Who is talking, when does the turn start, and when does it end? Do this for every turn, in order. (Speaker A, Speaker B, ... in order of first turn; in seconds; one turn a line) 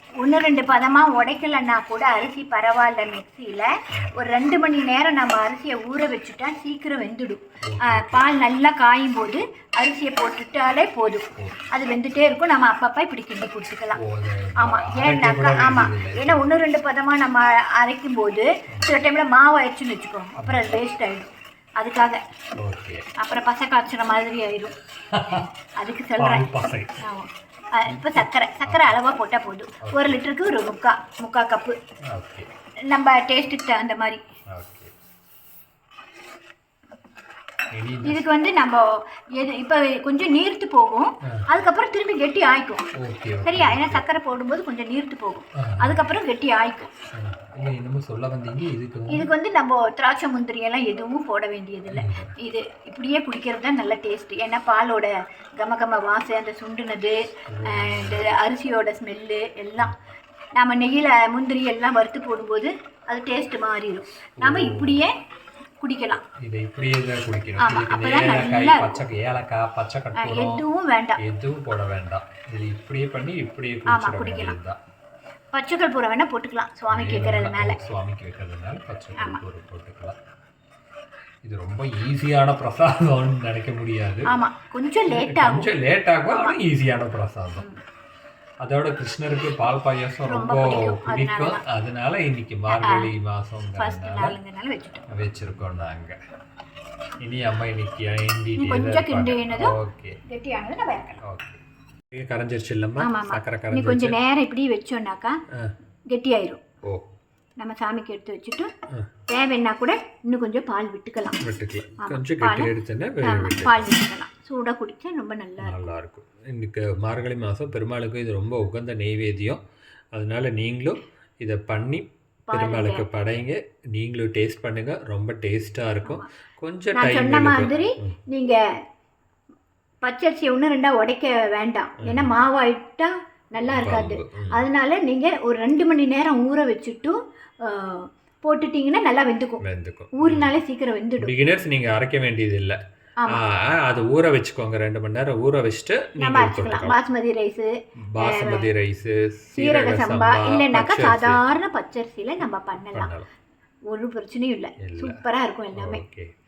Speaker A: 0.2-14.0
Speaker B: 7.7-8.2
Speaker B: 11.4-11.6
Speaker B: 13.9-16.5
Speaker A: 14.6-22.2
Speaker B: 18.7-18.9
Speaker B: 20.4-20.7
Speaker B: 22.6-23.0
Speaker A: 23.2-24.7
Speaker B: 25.1-25.5
Speaker A: 25.8-26.4
Speaker B: 26.2-27.0
Speaker A: 27.0-31.8
Speaker B: 27.9-28.9
Speaker B: 29.8-30.2
Speaker B: 32.1-32.5
Speaker A: 32.9-34.2
Speaker B: 34.5-34.9
Speaker B: 37.7-38.2
Speaker A: 38.0-42.9
Speaker B: 43.0-44.0
Speaker A: 43.4-46.9
Speaker B: 45.6-46.1
Speaker B: 47.1-49.3
Speaker A: 49.1-59.9
Speaker B: 51.9-52.3
Speaker B: 57.5-58.2
Speaker A: 60.5-65.1
Speaker B: 64.4-65.0
Speaker A: 65.8-66.2
Speaker B: 66.4-70.6
Speaker A: 67.6-69.0
Speaker A: 70.2-71.2
Speaker B: 71.2-74.8
Speaker A: 73.9-74.5
Speaker A: 75.5-77.8
Speaker B: 76.9-80.2
Speaker B: 81.4-84.3
Speaker A: 84.3-85.7
Speaker B: 85.1-87.7
Speaker A: 86.3-86.6
Speaker B: 88.6-94.3
Speaker A: 90.2-91.6
Speaker A: 92.8-93.1
Speaker A: 93.8-95.1
Speaker B: 95.1-96.2
Speaker B: 97.2-100.2
Speaker A: 98.5-99.8
Speaker A: 100.3-101.2
Speaker B: 101.2-101.6
Speaker B: 102.1-104.2
Speaker A: 103.0-105.3
Speaker A: 106.1-106.6
Speaker A: 107.6-108.7
Speaker A: 109.3-111.4
Speaker B: 111.4-113.9
Speaker A: 112.0-112.7
Speaker A: 113.2-115.8
Speaker B: 115.6-119.6
Speaker B: 120.1-128.2
Speaker A: 122.5-123.0
Speaker A: 127.0-128.6
Speaker A: 130.0-139.6
Speaker B: 132.0-132.3
Speaker B: 133.7-134.7
Speaker B: 139.6-140.5
Speaker A: 140.1-141.3
Speaker B: 141.2-142.8
Speaker B: 143.3-147.0
Speaker A: 146.2-148.7
Speaker B: 148.1-151.4
Speaker A: 149.6-153.1
Speaker B: 152.9-153.3
Speaker A: 153.9-156.0
Speaker B: 154.8-155.2
Speaker B: 155.7-156.3